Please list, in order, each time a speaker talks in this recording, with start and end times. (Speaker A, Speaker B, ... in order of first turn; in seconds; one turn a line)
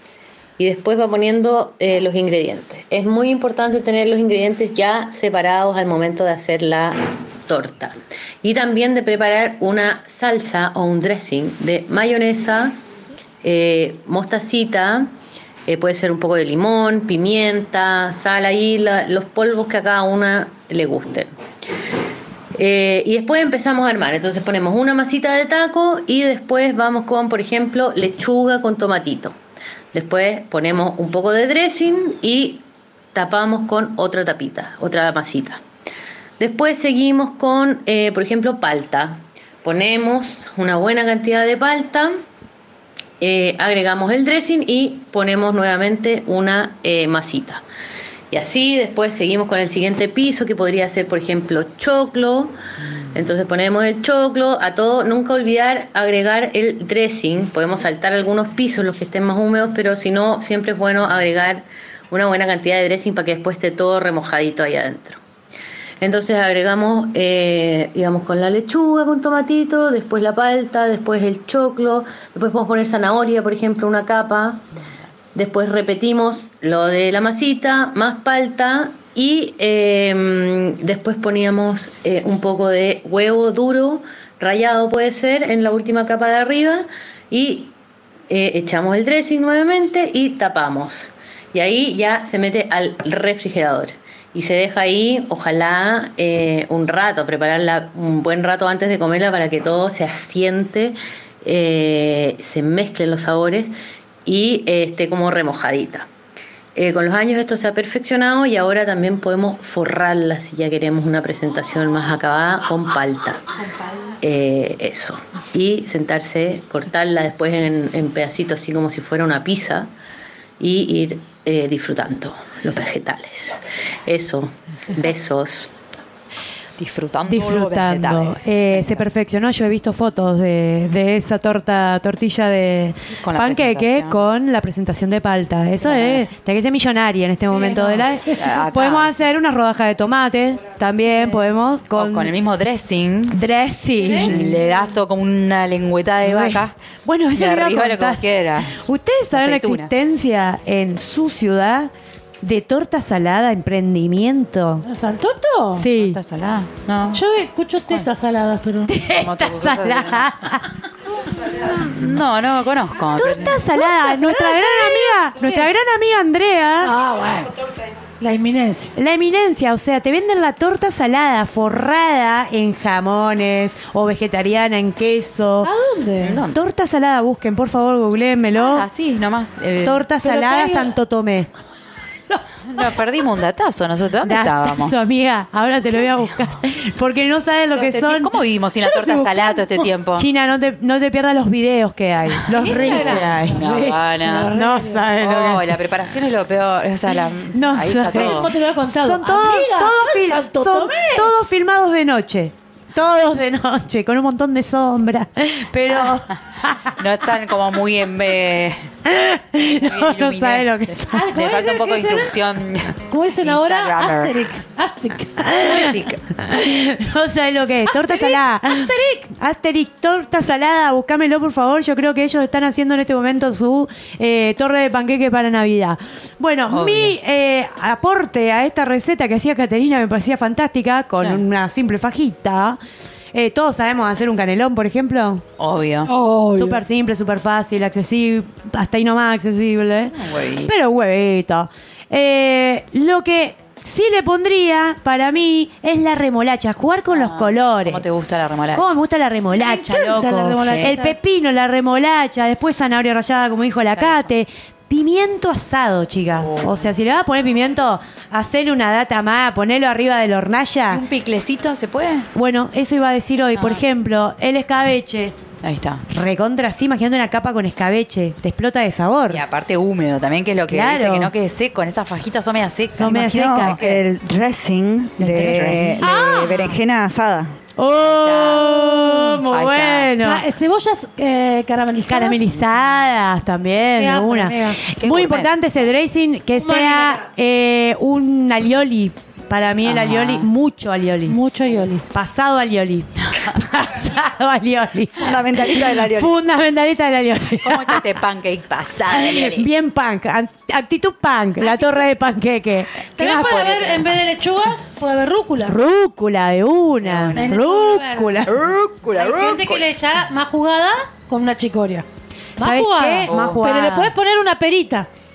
Speaker A: 0.6-12.8
Speaker A: 13.4-15.1
Speaker A: 15.7-21.3
Speaker A: 22.6-29.4
Speaker A: 29.9-35.6
Speaker A: 36.4-42.1
Speaker A: 43.2-47.6
Speaker A: 48.3-52.5
Speaker A: 53.1-65.2
Speaker A: 66.0-74.6
Speaker A: 75.3-87.8
Speaker A: 88.3-103.7
Speaker A: 104.3-106.1
Speaker A: 106.8-113.4
Speaker A: 114.2-119.9
Speaker A: 120.6-125.7
Speaker B: 126.8-129.0
Speaker C: 127.3-142.3
Speaker B: 133.2-134.2
Speaker B: 135.8-136.2
Speaker D: 137.4-138.3
Speaker B: 138.3-139.1
Speaker B: 141.9-143.4
Speaker C: 143.3-144.6
Speaker D: 144.0-144.3
Speaker B: 144.2-146.7
Speaker C: 146.2-151.9
Speaker B: 147.3-148.8
Speaker B: 149.3-149.9
Speaker C: 152.4-154.8
Speaker D: 154.8-155.9
Speaker C: 155.8-156.2
Speaker B: 155.9-157.2
Speaker D: 157.1-158.9
Speaker C: 158.9-160.7
Speaker B: 159.2-160.3
Speaker B: 161.4-163.7
Speaker C: 163.2-166.9
Speaker D: 163.8-165.7
Speaker D: 166.8-167.5
Speaker D: 168.2-168.9
Speaker C: 169.0-175.7
Speaker D: 175.6-176.4
Speaker B: 176.2-176.6
Speaker C: 176.5-178.9
Speaker B: 178.6-180.0
Speaker C: 179.8-181.5
Speaker D: 180.2-181.0
Speaker B: 182.7-184.9
Speaker C: 184.2-188.3
Speaker B: 186.0-186.3
Speaker B: 187.7-190.3
Speaker D: 188.9-189.6
Speaker C: 190.2-193.6
Speaker D: 192.5-195.1
Speaker B: 192.7-194.5
Speaker C: 194.5-195.8
Speaker B: 195.2-198.5
Speaker C: 197.5-206.9
Speaker D: 198.1-201.3
Speaker B: 207.0-208.9
Speaker C: 209.1-211.3
Speaker B: 209.8-214.5
Speaker D: 211.1-212.3
Speaker D: 213.1-215.6
Speaker C: 215.4-232.8
Speaker B: 215.7-216.2
Speaker D: 217.9-219.3
Speaker B: 226.7-227.2
Speaker C: 233.3-235.4
Speaker B: 235.6-236.1
Speaker D: 236.1-236.8
Speaker C: 236.5-248.0
Speaker B: 240.1-240.7
Speaker B: 247.1-249.0
Speaker C: 248.7-261.0
Speaker D: 249.5-251.2
Speaker B: 250.7-250.9
Speaker B: 253.9-254.2
Speaker B: 256.4-256.9
Speaker B: 260.9-262.3
Speaker C: 262.4-265.4
Speaker B: 263.6-263.8
Speaker B: 265.6-266.0
Speaker C: 266.1-269.4
Speaker B: 269.3-274.0
Speaker C: 270.7-271.3
Speaker C: 273.0-273.8
Speaker E: 273.0-277.5
Speaker C: 275.2-276.0
Speaker B: 275.3-276.0
Speaker D: 276.0-276.6
Speaker C: 277.8-280.5
Speaker B: 278.0-280.1
Speaker D: 280.2-282.5
Speaker C: 282.1-291.4
Speaker D: 284.0-284.8
Speaker B: 285.0-285.5
Speaker D: 286.5-287.3
Speaker B: 289.8-290.5
Speaker D: 291.3-292.0
Speaker C: 292.1-298.0
Speaker E: 295.2-296.3
Speaker B: 297.6-299.7
Speaker C: 299.1-302.9
Speaker B: 303.1-304.2
Speaker D: 303.2-305.8
Speaker C: 305.6-308.6
Speaker B: 307.0-307.5
Speaker D: 307.4-308.5
Speaker B: 308.5-309.9
Speaker D: 309.1-312.1
Speaker C: 312.6-314.1
Speaker D: 312.6-315.1
Speaker B: 313.3-313.6